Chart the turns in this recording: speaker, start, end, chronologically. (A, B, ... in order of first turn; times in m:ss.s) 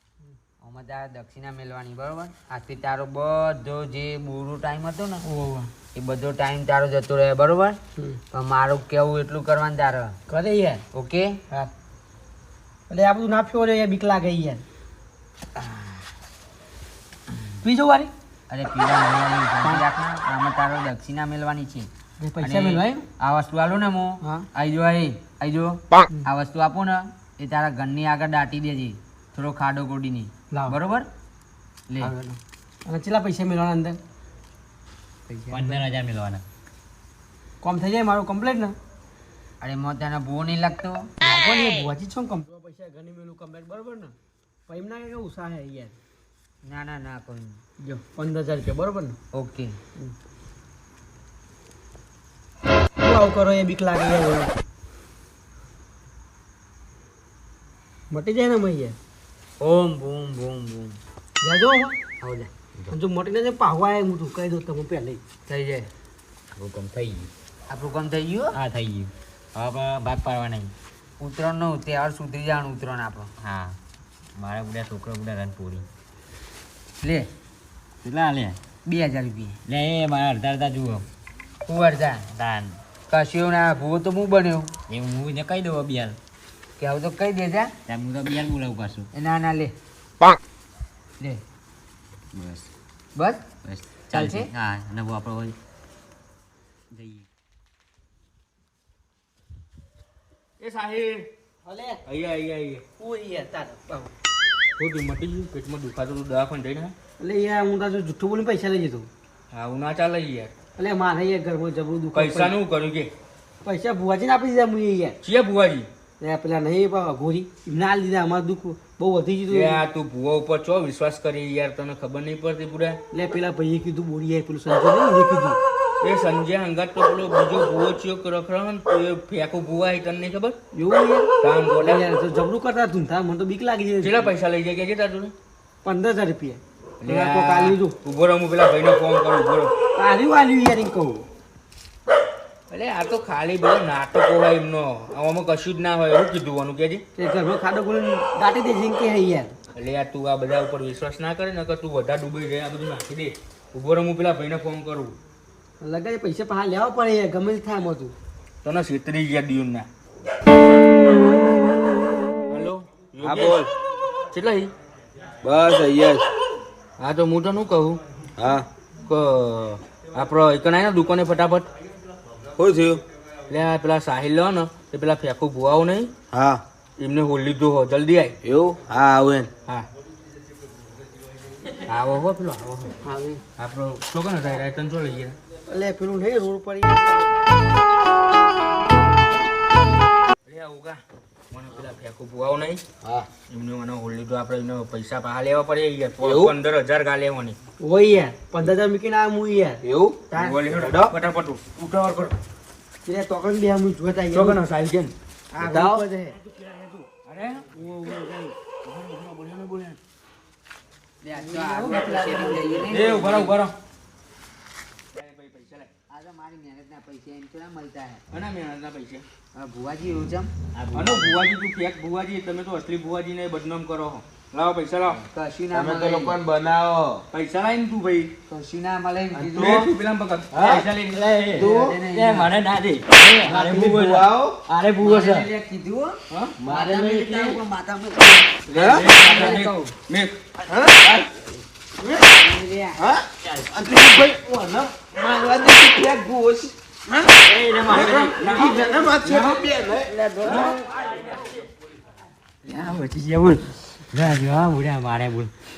0:00.6-0:05.2 A
0:05.2-0:05.7 B
0:05.9-0:07.8 A
0:08.3-0:10.2 A
0:10.3-0:10.8 B
0:10.9-0:11.4 A
0:12.9-0:14.6 B
0:17.6-0:18.1 B
0:18.5-0:21.9 A
0:22.2-0:23.0 B
0:22.4-0:31.1 A
0:30.5-0:30.8 B
0:32.0-0:34.0 B
0:35.3-0:35.7 A
0:35.5-0:36.4 C
0:37.6-0:38.8 B
0:39.6-0:41.1 A
0:41.2-0:44.1 B
0:44.7-0:45.9 B
0:46.6-0:47.6 A
0:47.8-0:49.2 B
0:49.3-0:49.8 A
0:53.0-0:54.5 B
0:58.1-0:59.0 B
0:59.6-1:01.0 A
1:01.4-1:02.0 B
1:02.2-1:02.5 A
1:02.9-1:05.2 B
1:05.5-1:05.9 A
1:06.6-1:07.3 C
1:07.7-1:08.6 A
1:08.5-1:10.7 C
1:11.2-1:13.3 A
1:13.4-1:13.8 C
1:14.4-1:15.9 C
1:17.0-1:17.3 A
1:18.0-1:18.6 C
1:18.8-1:19.6 A
1:19.6-1:21.0 C
1:21.6-1:22.2 A
1:22.3-1:22.8 C
1:23.1-1:24.7 A
1:24.9-1:26.2 C
1:26.8-1:27.7 A
1:27.9-1:29.1 C
1:29.1-1:29.7 A
1:32.3-1:32.7 C
1:33.1-1:33.4 A
1:33.6-1:35.5 C
1:34.1-1:34.5 A
1:36.9-1:37.2 C
1:40.6-1:41.3 D
1:41.6-1:42.0 B
1:42.0-1:42.8 D
1:43.0-1:44.1 B
1:44.8-1:46.9 D
1:47.2-1:49.1 B
1:49.5-1:50.5 D
1:50.8-1:52.5 B
1:52.1-1:53.1 D
1:53.6-1:55.2 B
1:55.2-1:55.9 D
1:56.2-1:59.8 B
1:59.5-2:03.0 D
2:03.1-2:05.6 B
2:06.0-2:10.6 D
2:10.7-2:14.3 B
2:11.4-2:12.0 D
2:14.0-2:15.3 D
2:15.8-2:18.0 B
2:17.0-2:19.7 D
2:19.9-2:21.3 B
2:22.7-2:27.0 D
2:27.2-2:29.5 B
2:29.7-2:35.2 D
2:35.8-2:38.1 B
2:38.6-2:39.9 D
2:42.5-2:43.7 D
2:43.2-2:43.6 E
2:44.3-2:44.7 D
2:45.4-2:46.2 E
2:47.0-2:48.0 D
2:48.4-2:48.7 E
2:49.0-2:51.7 D
2:52.6-2:53.0 E
2:53.5-2:56.1 D
2:56.3-2:56.6 E
2:57.0-2:58.4 D
2:58.4-2:59.5 E
3:01.8-3:03.0 D
3:03.0-3:03.4 B
3:03.6-3:05.4 D
3:05.7-3:07.6 B
3:10.4-3:12.8 D
3:13.5-3:17.6 D
3:16.2-3:16.5 E
3:17.8-3:21.1 B
3:19.8-3:20.2 E
3:20.3-3:22.4 D
3:20.8-3:21.1 E
3:23.0-3:24.6 B
3:24.3-3:26.0 D
3:25.6-3:26.4 B
3:26.5-3:30.0 D
3:27.7-3:28.5 B
3:31.2-3:33.5 A
3:31.3-3:33.2 B
3:32.8-3:33.7 D
3:35.1-3:35.9 D
3:36.1-3:38.2 A
3:38.3-3:39.2 D
3:39.5-3:40.5 A
3:40.7-3:41.5 C
3:40.9-3:45.2 D
3:45.3-3:46.4 A
3:45.7-3:47.2 E
3:47.3-3:48.3 D
3:48.5-3:49.9 A
3:49.3-3:49.8 E
3:49.6-3:51.2 D
3:50.5-3:50.8 E
3:50.7-3:55.5 C
3:51.5-3:52.5 A
3:51.5-3:52.0 E
3:53.4-3:54.6 E
3:55.0-3:59.9 A
3:56.3-3:56.5 D
3:56.7-3:57.6 E
3:58.7-4:00.3 D
3:58.7-3:59.6 E
4:00.7-4:01.2 E
4:02.1-4:03.0 A
4:03.0-4:06.7 E
4:03.4-4:04.0 C
4:07.4-4:08.8 C
4:07.9-4:10.7 E
4:08.1-4:09.7 D
4:08.8-4:09.1 B
4:09.9-4:10.8 A
4:12.6-4:15.5 C